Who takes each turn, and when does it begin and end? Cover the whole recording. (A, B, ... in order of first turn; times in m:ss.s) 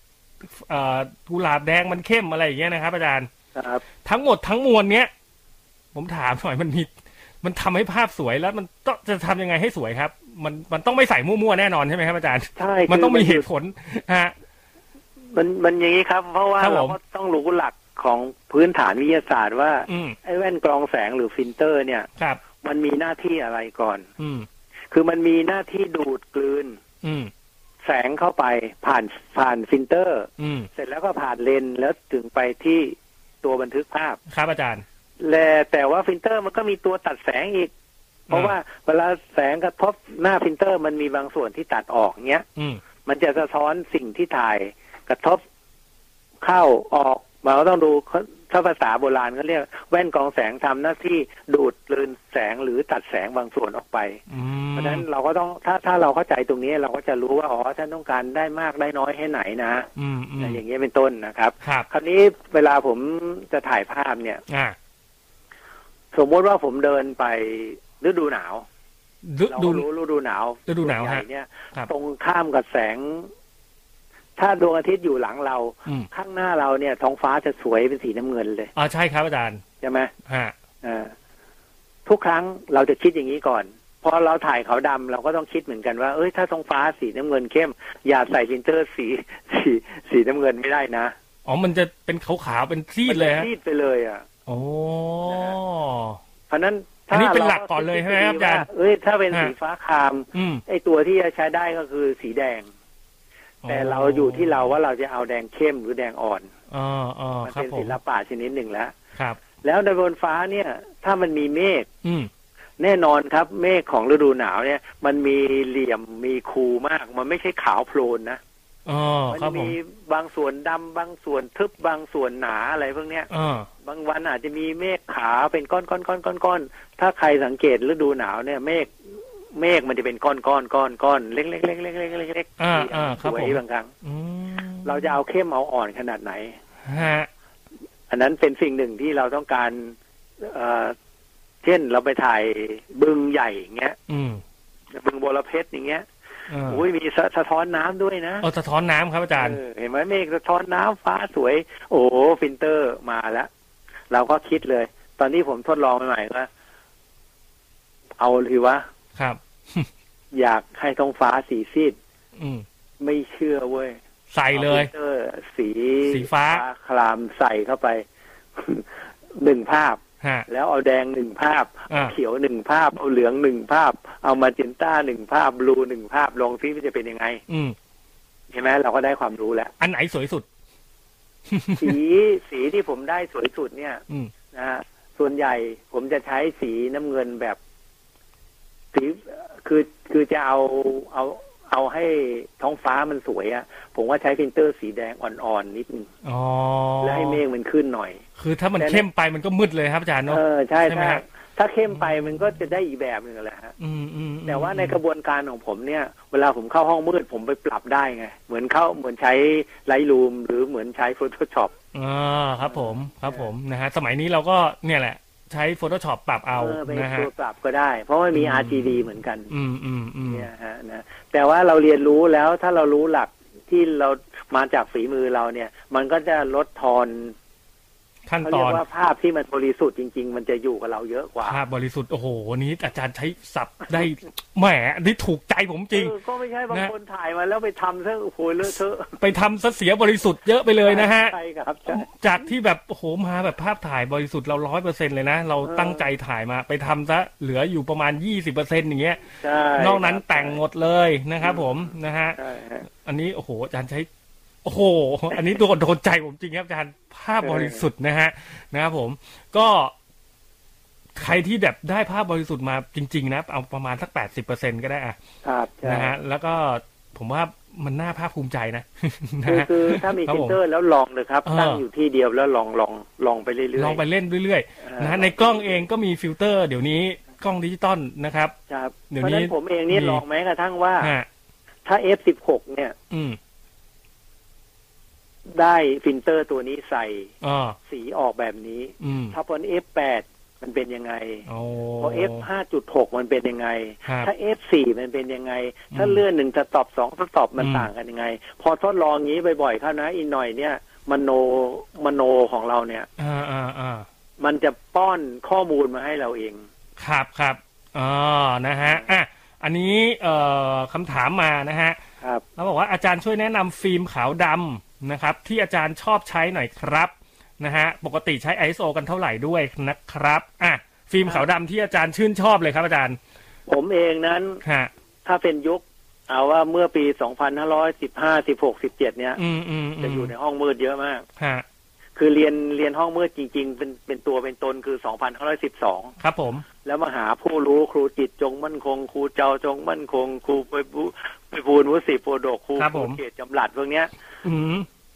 0:00.4-0:03.3 A
0:03.6-0:03.8 B
0:04.0-0:05.1 A
0:05.9-0:06.9 A
0:07.4-0:14.3 A
0:12.6-0:13.5 B
0:15.3-0:22.1 B
0:16.6-0:17.0 A
0:19.9-0:20.2 A
0:22.6-0:24.1 B
0:24.2-0:24.5 A
0:24.9-0:26.8 B
0:27.0-0:27.3 A
0:27.8-0:34.2 B
0:30.4-0:30.7 A
0:34.3-0:34.8 A
0:35.2-0:37.7 B
0:38.3-0:38.6 A
0:38.3-0:42.4 B
0:42.6-0:42.8 A
0:43.0-0:45.4 B
0:46.4-0:54.2 B
0:54.3-0:55.1 A
0:54.8-1:04.4 B
1:00.0-1:00.6 A
1:01.6-1:01.9 A
1:04.5-1:04.8 A
1:06.1-1:08.7 B
1:09.2-1:09.8 A
1:09.5-1:13.3 B
1:10.7-1:11.9 A
1:14.4-1:18.7 B
1:18.8-1:19.6 A
1:19.8-1:20.1 B
1:20.3-1:20.6 A
1:20.8-1:21.1 B
1:22.1-1:31.1 B
1:31.5-1:33.5 A
1:33.1-1:34.3 B
1:34.5-1:36.2 A
1:35.2-1:35.6 B
1:36.5-1:42.7 B
1:37.1-1:38.7 A
1:40.3-1:40.6 A
1:43.6-1:44.6 A
1:43.7-1:46.5 B
1:46.7-1:48.0 A
1:47.4-1:49.0 B
1:49.6-1:51.9 B
1:52.0-1:52.3 A
1:52.8-1:58.4 B
1:58.9-1:59.8 A
1:59.3-2:03.3 B
2:03.3-2:03.7 A
2:03.8-2:13.9 B
2:12.6-2:15.2 A
2:14.8-2:16.6 B
2:16.8-2:17.3 A
2:18.1-2:21.0 B
2:21.6-2:24.0 B
2:24.1-2:24.4 A
2:24.9-2:26.1 B
2:26.5-2:26.8 A
2:26.6-2:28.4 B
2:28.4-2:29.6 A
2:29.4-2:33.5 B
2:34.1-2:36.5 B
2:38.2-2:38.9 B
2:39.2-2:39.9 A
2:40.3-2:42.0 B
2:42.4-2:42.6 A
2:43.0-2:44.0 B
2:44.3-2:44.9 A
2:44.5-2:48.0 B
2:46.1-2:46.6 A
2:48.6-2:57.4 B
2:50.2-2:50.5 A
2:57.5-2:57.8 A
2:58.5-2:59.7 B
2:59.8-3:00.5 A
3:01.5-3:02.0 A
3:01.8-3:07.6 B
3:08.9-3:16.1 B
3:16.2-3:17.4 A
3:17.0-3:18.2 B
3:18.4-3:21.2 A
3:18.8-3:19.0 B
3:20.3-3:23.8 B
3:23.8-3:25.0 A
3:24.5-3:31.7 B
3:31.9-3:37.3 A
3:32.7-3:33.5 B
3:36.6-3:39.5 B
3:38.3-3:40.5 A
3:40.3-3:47.4 B
3:48.3-3:48.8 A
3:48.4-3:51.6 B
3:51.4-3:56.2 A
3:55.9-3:59.2 B
3:59.2-4:01.4 A
4:00.8-4:02.1 B
4:01.9-4:09.2 A
4:05.6-4:06.1 B
4:09.4-4:10.6 B
4:09.8-4:12.4 A
4:12.4-4:12.9 B
4:12.9-4:14.1 A
4:14.6-4:19.9 A
4:17.4-4:17.8 B
4:21.2-4:25.2 A
4:25.4-4:26.2 B
4:25.8-4:30.6 A
4:29.5-4:34.0 B
4:31.5-4:31.8 A
4:33.8-4:38.6 A
4:34.8-4:35.8 B
4:38.7-4:41.1 B
4:39.1-4:40.2 A
4:41.0-4:41.3 A
4:41.8-4:43.0 B
4:43.1-4:43.4 A
4:45.5-4:47.3 B
4:47.4-4:47.8 A
4:47.8-4:51.5 B
4:49.0-4:49.4 A
4:51.5-4:52.5 A
4:52.0-5:03.1 B
4:54.1-4:54.3 A
4:55.9-4:56.2 A
4:57.6-4:57.9 A
5:03.2-5:04.1 A
5:04.4-5:06.6 B
5:07.0-5:12.0 A
5:12.6-5:23.2 A
5:23.7-5:24.6 B
5:24.6-5:24.9 A
5:25.2-5:29.4 B
5:29.4-5:30.3 A
5:30.0-5:31.2 B
5:31.4-5:31.6 A
5:32.2-5:36.1 B
5:36.2-5:36.6 A
5:36.8-5:44.1 B
5:42.8-5:43.2 A
5:44.4-5:44.9 A